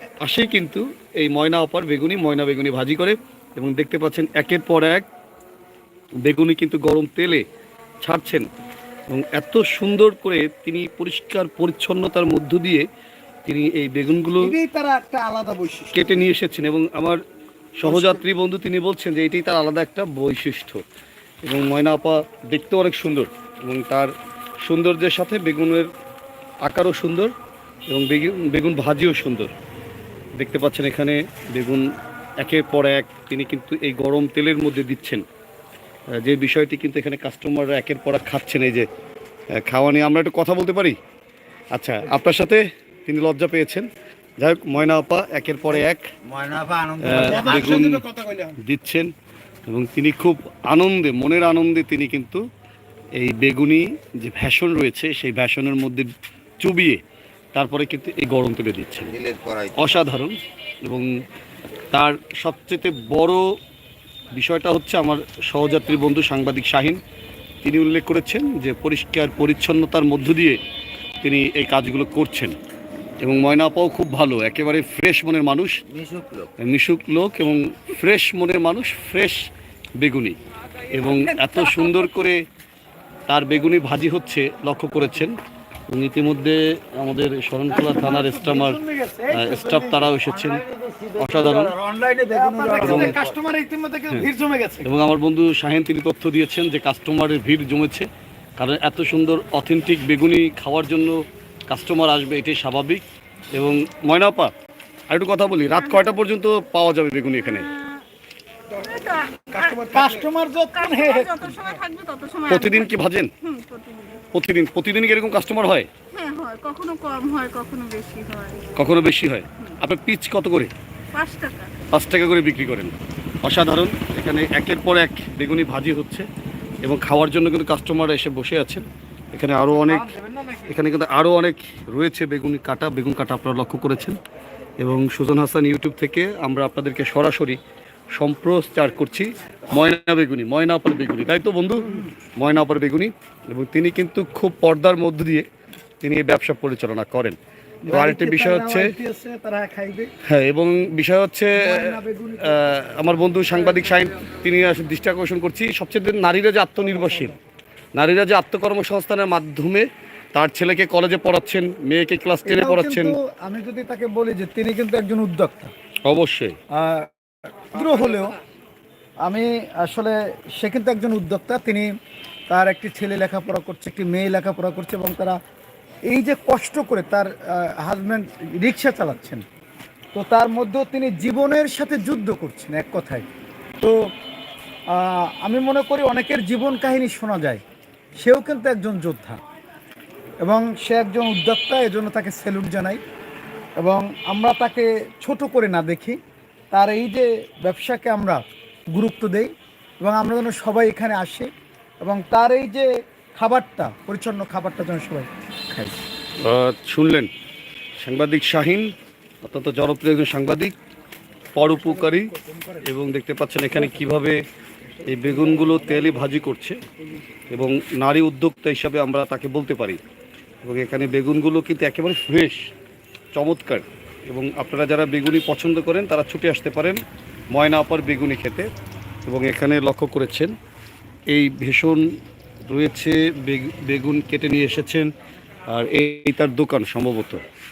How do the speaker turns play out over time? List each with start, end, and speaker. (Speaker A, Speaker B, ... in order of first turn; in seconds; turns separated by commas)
Speaker A: 0.2-5.1, Speaker A: 6.3-7.4, Speaker A: 8.0-8.4, Speaker A: 9.1-12.8, Speaker A: 13.4-14.6, Speaker B: 14.4-16.0, Speaker A: 15.9-17.2, Speaker A: 17.8-20.8, Speaker B: 17.8-18.2, Speaker A: 21.4-24.1, Speaker A: 24.6-25.9, Speaker A: 26.6-27.3, Speaker A: 27.9-29.5, Speaker A: 30.4-31.9, Speaker A: 32.4-35.2, Speaker A: 36.2-38.9, Speaker A: 39.6-41.0, Speaker A: 41.7-43.9, Speaker A: 44.4-46.1, Speaker C: 46.2-47.9, Speaker A: 47.0-48.0, Speaker B: 47.1-48.5, Speaker A: 48.6-49.1, Speaker A: 49.7-52.4, Speaker A: 53.2-57.0, Speaker A: 57.5-59.1, Speaker C: 59.0-60.0, Speaker A: 59.8-61.1, Speaker A: 61.9-63.4, Speaker A: 64.4-67.0, Speaker A: 67.6-70.6, Speaker A: 71.2-72.6, Speaker A: 73.2-75.7, Speaker C: 75.9-76.5, Speaker A: 76.6-79.4, Speaker A: 80.0-80.4, Speaker A: 80.9-82.4, Speaker A: 83.3-85.3, Speaker A: 85.9-88.8, Speaker B: 87.7-89.3, Speaker C: 89.1-93.3, Speaker A: 89.3-90.6, Speaker A: 91.2-91.8, Speaker B: 92.3-94.9, Speaker A: 92.8-93.2, Speaker A: 94.8-103.0, Speaker A: 103.5-104.5, Speaker A: 105.1-107.7, Speaker D: 107.5-108.0, Speaker D: 108.7-110.2, Speaker B: 109.6-111.6, Speaker D: 110.7-114.2, Speaker A: 112.5-113.3, Speaker A: 114.3-115.9, Speaker D: 116.1-118.6, Speaker A: 118.8-120.7, Speaker D: 121.1-121.8, Speaker A: 121.9-126.3, Speaker A: 126.8-130.1, Speaker A: 130.7-134.2, Speaker A: 134.8-137.6, Speaker A: 138.2-145.5, Speaker A: 146.0-147.4, Speaker B: 147.9-150.1, Speaker A: 147.9-148.9, Speaker A: 150.2-157.4, Speaker B: 151.6-152.7, Speaker A: 158.0-163.2, Speaker B: 162.4-165.7, Speaker A: 166.1-166.6, Speaker B: 166.8-168.4, Speaker B: 169.2-171.9, Speaker B: 172.5-175.4, Speaker B: 176.1-179.4, Speaker B: 180.1-183.2, Speaker B: 184.9-187.6, Speaker B: 188.2-189.4, Speaker B: 190.4-193.0, Speaker B: 193.8-196.2, Speaker B: 196.7-199.5, Speaker B: 200.0-201.5, Speaker B: 202.0-206.0, Speaker A: 206.4-207.3, Speaker A: 208.0-208.9, Speaker A: 209.4-210.7, Speaker A: 211.6-214.4, Speaker A: 215.0-216.8, Speaker A: 217.5-220.0, Speaker A: 220.6-222.7, Speaker A: 223.3-227.0, Speaker A: 227.5-228.7, Speaker A: 229.3-230.5, Speaker A: 231.3-232.0, Speaker A: 232.7-235.1, Speaker A: 235.7-237.4